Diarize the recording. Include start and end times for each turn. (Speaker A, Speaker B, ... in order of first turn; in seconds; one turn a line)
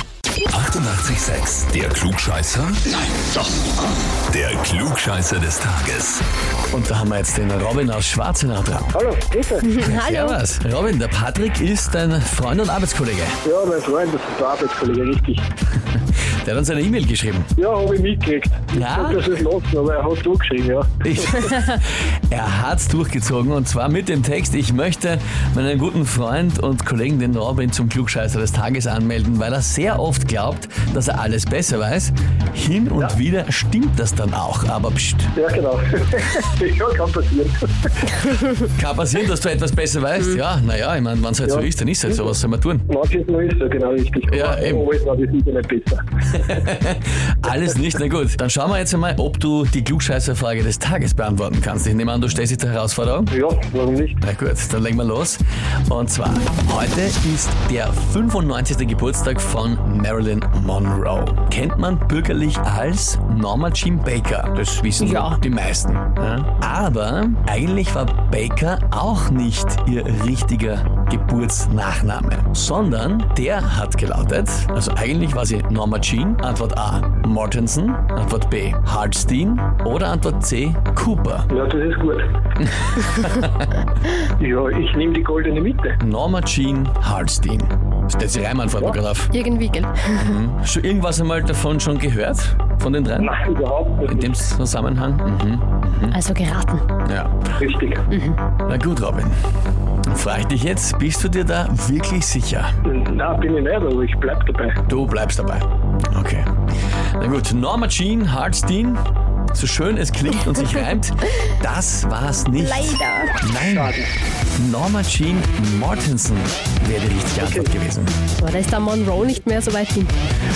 Speaker A: 0.5-2.8
Speaker A: 4.3-6.2
Speaker B: 6.7-8.9
Speaker C: 8.9-9.8
Speaker D: 9.7-10.4
Speaker B: 9.8-13.4
Speaker C: 13.4-15.4
Speaker B: 15.9-17.5
Speaker C: 17.6-21.5
Speaker B: 18.7-19.2
Speaker B: 21.0-35.3
Speaker C: 35.4-38.1
Speaker B: 38.5-42.9
Speaker C: 41.5-42.3
Speaker C: 42.9-46.0
Speaker B: 44.3-44.9
Speaker B: 46.3-53.3
Speaker C: 53.3-54.2
Speaker B: 54.2-81.5
Speaker D: 65.0-65.4
Speaker C: 81.5-82.3
Speaker B: 82.8-83.7
Speaker C: 84.4-86.0
Speaker B: 86.0-89.3
Speaker D: 89.3-90.2
Speaker B: 90.1-93.3
Speaker C: 93.2-94.3
Speaker B: 94.0-96.2
Speaker D: 96.1-96.8
Speaker B: 97.0-97.4
Speaker C: 97.6-98.0
Speaker D: 98.1-98.4
Speaker B: 98.7-99.3
Speaker B: 100.0-102.7
Speaker C: 102.8-104.8
Speaker B: 104.9-106.5
Speaker B: 107.2-109.0
Speaker B: 109.5-113.9
Speaker D: 112.7-113.3
Speaker C: 113.6-114.1
Speaker B: 114.5-118.2
Speaker C: 117.4-117.7
Speaker D: 118.4-120.1